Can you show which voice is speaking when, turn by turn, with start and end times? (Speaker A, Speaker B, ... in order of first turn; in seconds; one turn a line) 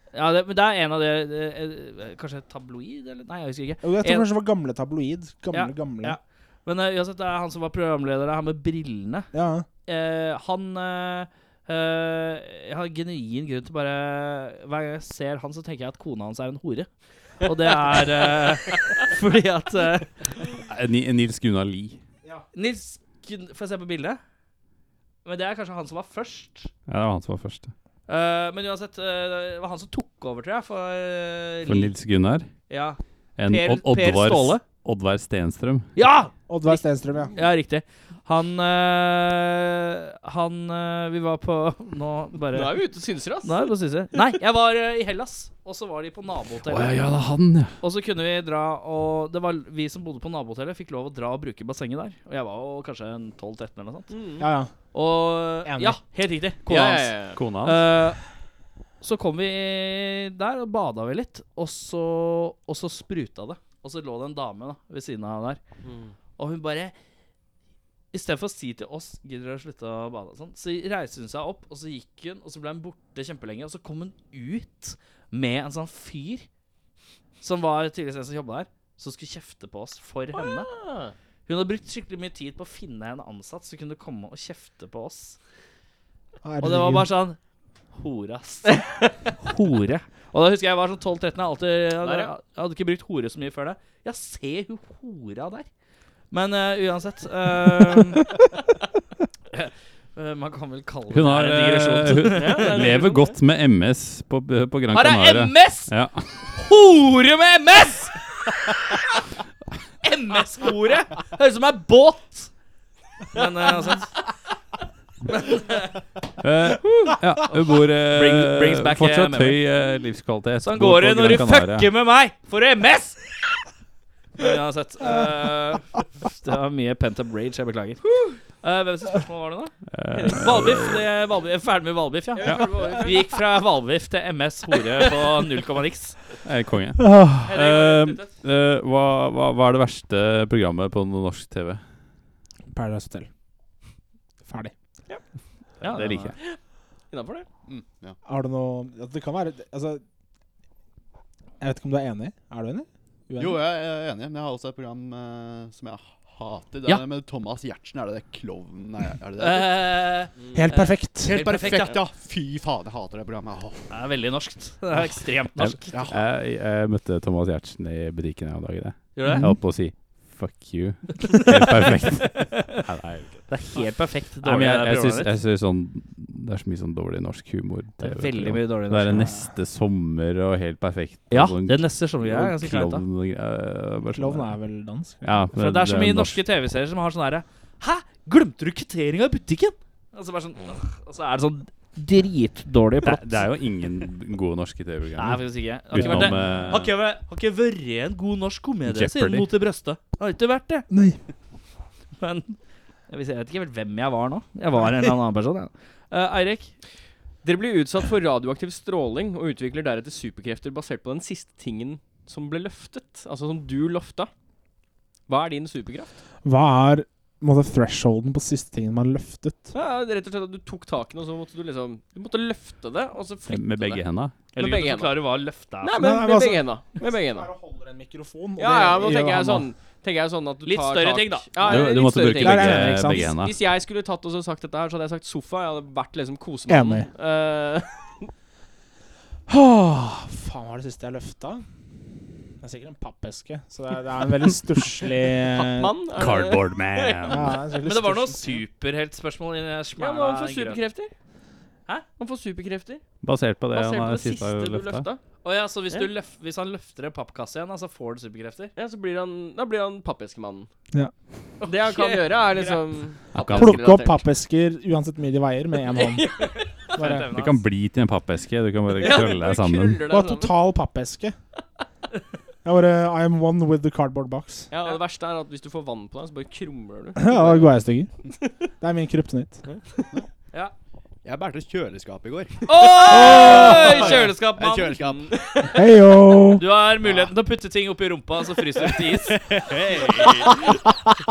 Speaker A: 0.1-4.3
Speaker B: 3.8-6.2
Speaker A: 5.5-9.3
Speaker B: 9.3-9.7
Speaker A: 9.9-16.9
Speaker A: 17.4-20.4
Speaker C: 20.7-22.0
Speaker A: 22.5-24.2
Speaker A: 25.2-26.7
Speaker C: 26.9-27.7
Speaker A: 28.1-31.9
Speaker C: 31.6-32.5
Speaker A: 32.7-34.6
Speaker C: 33.4-35.9
Speaker A: 36.0-36.3
Speaker B: 36.5-37.4
Speaker A: 37.3-42.8
Speaker D: 42.5-43.7
Speaker A: 43.4-47.0
Speaker C: 46.6-47.7
Speaker A: 47.8-54.2
Speaker D: 54.1-54.5
Speaker B: 54.4-54.7
Speaker A: 54.9-58.2
Speaker B: 55.6-56.0
Speaker D: 56.6-57.4
Speaker C: 57.3-57.8
Speaker A: 59.0-65.6
Speaker D: 65.8-66.1
Speaker A: 66.4-66.9
Speaker A: 68.1-76.5
Speaker A: 77.4-80.7
Speaker D: 80.4-81.1
Speaker A: 81.5-85.4
Speaker B: 86.4-87.1
Speaker A: 86.6-87.4
Speaker A: 87.9-88.8
Speaker A: 89.4-95.7
Speaker D: 92.0-92.3
Speaker A: 96.3-98.4
Speaker A: 99.5-102.9
Speaker C: 101.1-106.5
Speaker D: 102.3-103.4
Speaker A: 104.9-105.9
Speaker A: 106.5-108.3
Speaker A: 110.0-112.5
Speaker A: 113.3-114.1
Speaker A: 115.4-115.9
Speaker C: 116.4-121.9
Speaker A: 116.8-119.6
Speaker A: 120.6-123.2
Speaker A: 124.4-129.7
Speaker C: 129.9-131.1
Speaker D: 130.1-130.7
Speaker A: 130.2-136.2
Speaker D: 132.3-133.3
Speaker C: 132.4-132.7
Speaker C: 136.4-141.8
Speaker B: 137.0-137.5
Speaker D: 137.5-138.3
Speaker B: 142.7-143.3
Speaker B: 144.5-144.7
Speaker A: 145.8-146.3
Speaker C: 145.8-146.4
Speaker D: 147.1-147.4
Speaker E: 147.7-148.2
Speaker B: 148.2-150.0
Speaker B: 151.6-153.6
Speaker E: 153.4-159.8
Speaker A: 159.4-162.0
Speaker D: 160.4-160.6
Speaker B: 160.5-161.4
Speaker E: 161.2-163.9
Speaker A: 163.9-165.9
Speaker C: 165.6-173.9
Speaker E: 165.9-166.2
Speaker A: 169.1-169.5
Speaker B: 169.3-169.6
Speaker A: 171.3-171.7
Speaker A: 172.2-172.8
Speaker A: 173.4-175.3
Speaker C: 174.4-184.6
Speaker A: 178.0-179.3
Speaker A: 181.3-183.1
Speaker B: 184.1-185.4
Speaker C: 185.2-186.4
Speaker A: 185.5-193.4
Speaker C: 193.0-196.9
Speaker A: 195.2-200.9
Speaker C: 198.8-199.5
Speaker B: 200.9-201.2
Speaker A: 202.2-202.6
Speaker A: 203.1-206.7
Speaker D: 207.4-214.3
Speaker D: 215.3-216.1
Speaker B: 216.4-219.7
Speaker D: 219.7-225.2
Speaker C: 223.5-224.3
Speaker A: 224.6-226.0
Speaker D: 225.8-227.5
Speaker B: 226.0-229.7
Speaker D: 228.6-238.3
Speaker A: 230.6-231.8
Speaker C: 231.6-233.6
Speaker B: 232.3-233.3
Speaker B: 236.7-237.1
Speaker B: 239.5-241.6
Speaker B: 242.6-245.9
Speaker D: 245.4-247.5
Speaker C: 246.1-247.6
Speaker B: 247.3-248.6
Speaker A: 247.8-250.8
Speaker D: 250.0-251.1
Speaker D: 252.2-253.0
Speaker C: 253.2-255.1
Speaker D: 253.7-255.2
Speaker A: 255.4-258.7
Speaker D: 258.8-260.7
Speaker D: 261.6-264.2
Speaker A: 261.6-262.8
Speaker C: 263.4-263.8
Speaker B: 263.5-267.3
Speaker D: 265.9-266.9
Speaker A: 266.9-267.6
Speaker C: 267.3-270.0
Speaker D: 269.0-270.5
Speaker B: 270.1-271.4
Speaker B: 272.6-274.7
Speaker D: 274.7-277.8
Speaker B: 277.2-278.1
Speaker B: 278.8-279.6
Speaker D: 279.6-280.1
Speaker E: 281.2-285.3
Speaker A: 282.7-285.8
Speaker D: 282.7-284.4
Speaker B: 285.7-286.6
Speaker A: 286.6-289.4
Speaker E: 289.3-290.6